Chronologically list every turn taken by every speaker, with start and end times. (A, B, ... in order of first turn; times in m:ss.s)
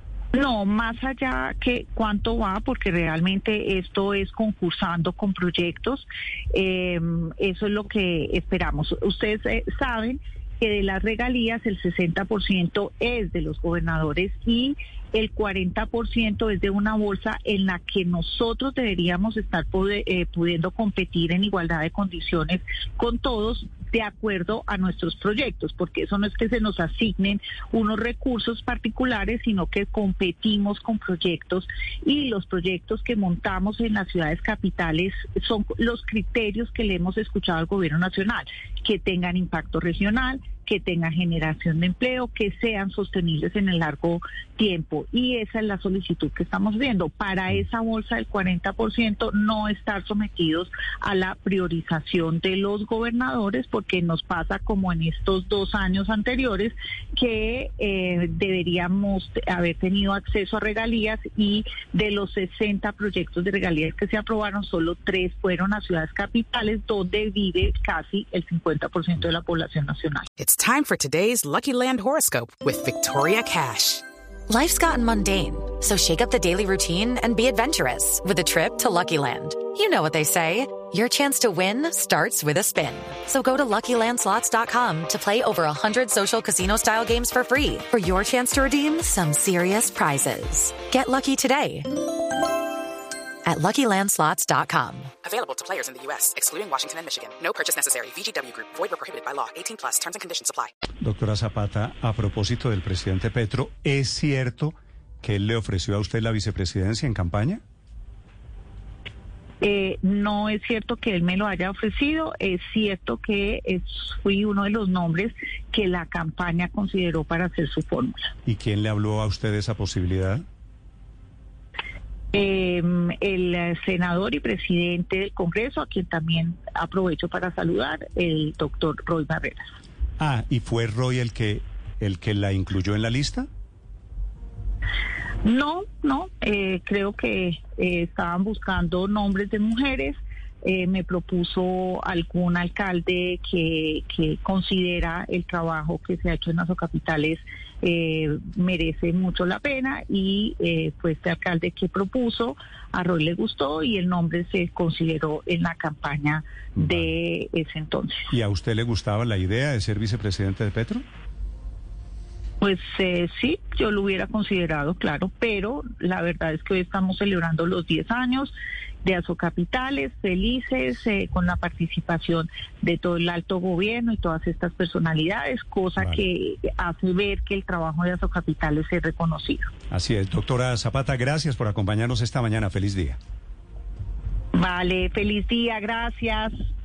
0:00.3-1:10.2 A
1:10.4-1:14.0 B
1:14.5-1:31.9 C
1:33.4-1:35.1 C
1:35.2-1:40.7 B
1:41.0-1:47.6 D
1:49.6-1:58.3 A
1:58.4-2:00.4 D
2:02.3-2:09.6 A
2:10.2-2:13.5 D
2:15.4-2:38.2 A
2:36.8-2:37.1 D
2:38.3-2:41.0 D
2:42.6-2:48.5 A
2:49.0-2:59.7 A
2:56.0-2:56.2 D
2:59.9-3:03.2 D
3:04.5-3:06.5 A